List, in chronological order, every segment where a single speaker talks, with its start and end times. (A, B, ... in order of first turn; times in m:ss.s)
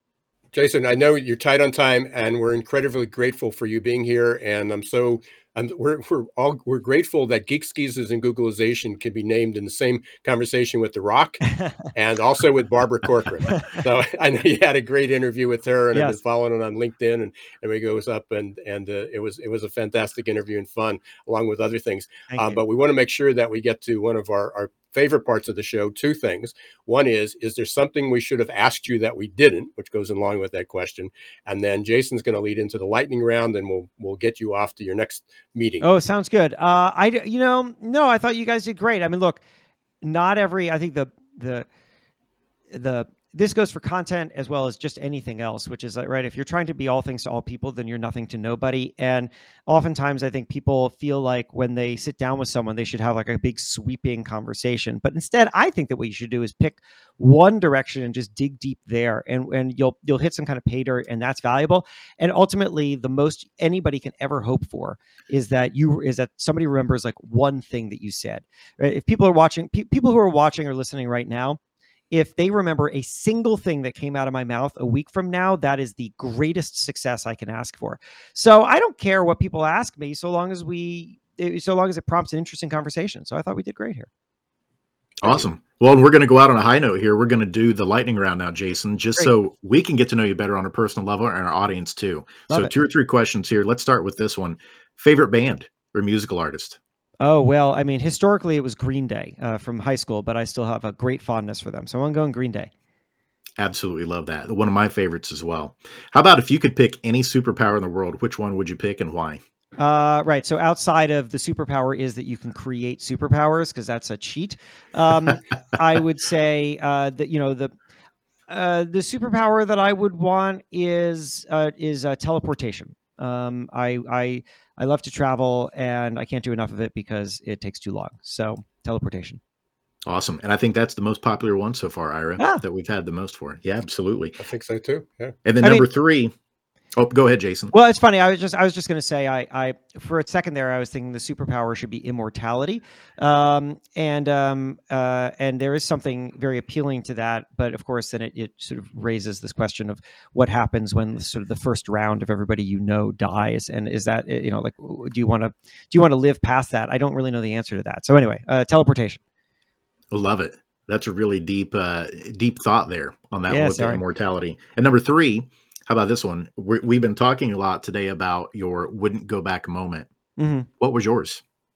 0:00.5-0:35.8 A
0:13.5-0:13.8 B
0:22.3-0:22.6 B
0:35.8-0:39.4 B
0:40.0-0:41.7 B
0:42.7-1:11.6 B
1:12.1-1:24.1 B
1:25.2-1:36.8 C
1:37.2-1:42.7 B
1:43.6-1:49.4 C
1:49.8-1:57.7 B
1:58.5-2:09.4 B
2:10.0-2:14.4 C
2:12.4-2:12.6 B
2:14.4-2:15.4 A
2:15.4-2:16.3 C
2:16.9-2:17.7 C
2:17.7-2:39.2 B
2:40.1-2:50.1 C
2:43.5-2:44.0 B
2:50.4-2:50.7 B
2:50.8-2:51.4 C